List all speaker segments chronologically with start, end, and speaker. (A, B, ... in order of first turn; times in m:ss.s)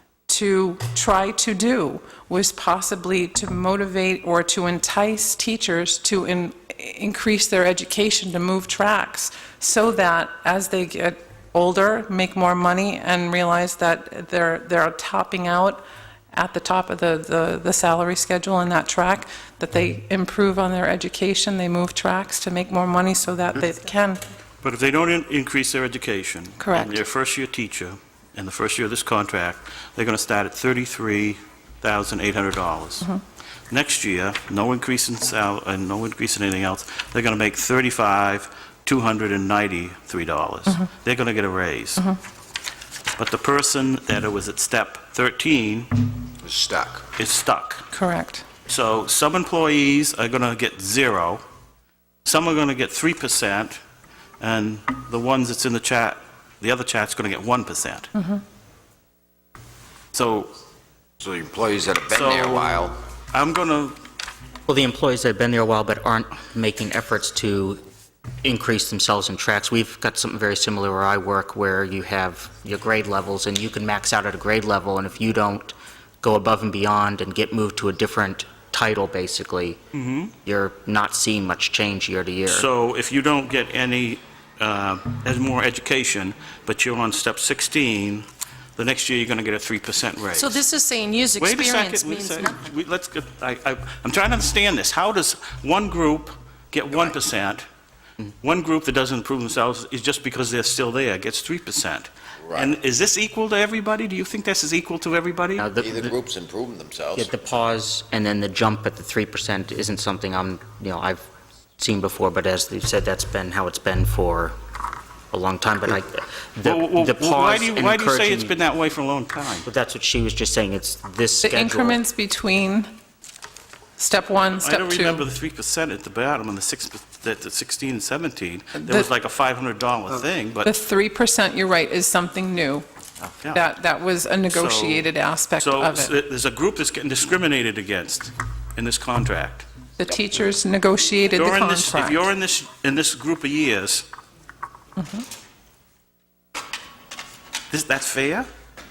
0:00.3-0:24.2 A
0:24.6-0:33.1 B
0:26.6-0:27.0 A
0:33.7-0:42.1 B
0:43.2-0:46.1 B
0:46.4-0:47.0 C
0:47.1-0:47.8 B
0:47.9-0:48.4 A
0:48.7-0:51.4 B
0:52.2-0:53.8 B
0:54.4-0:58.1 B
0:58.1-0:58.4 A
1:00.1-1:00.5 B
1:01.2-1:03.0 C
1:02.1-1:04.0 B
1:04.7-1:07.8 D
1:08.4-1:19.8 D
1:19.9-1:20.3 B
1:20.4-1:22.7 D
1:22.5-1:30.6 B
1:30.3-1:32.7 E
1:31.4-1:37.7 B
1:36.9-1:37.2 C
1:38.4-1:45.7 B
1:42.4-1:42.8 C
1:45.6-1:46.2 D
1:45.7-1:47.3 C
1:47.1-1:51.2 D
1:51.8-1:54.5 D
1:55.3-1:58.6 D
1:56.6-1:59.7 B
1:59.6-2:02.0 D
2:01.4-2:02.9 A
2:04.0-2:05.3 A
2:04.5-2:10.7 B
2:08.8-2:09.1 A
2:10.6-2:12.8 A
2:13.5-2:16.1 A
2:14.5-2:19.7 B
2:20.0-2:22.2 A
2:21.3-2:24.1 B
2:25.0-2:25.2 A
2:27.7-2:28.5 B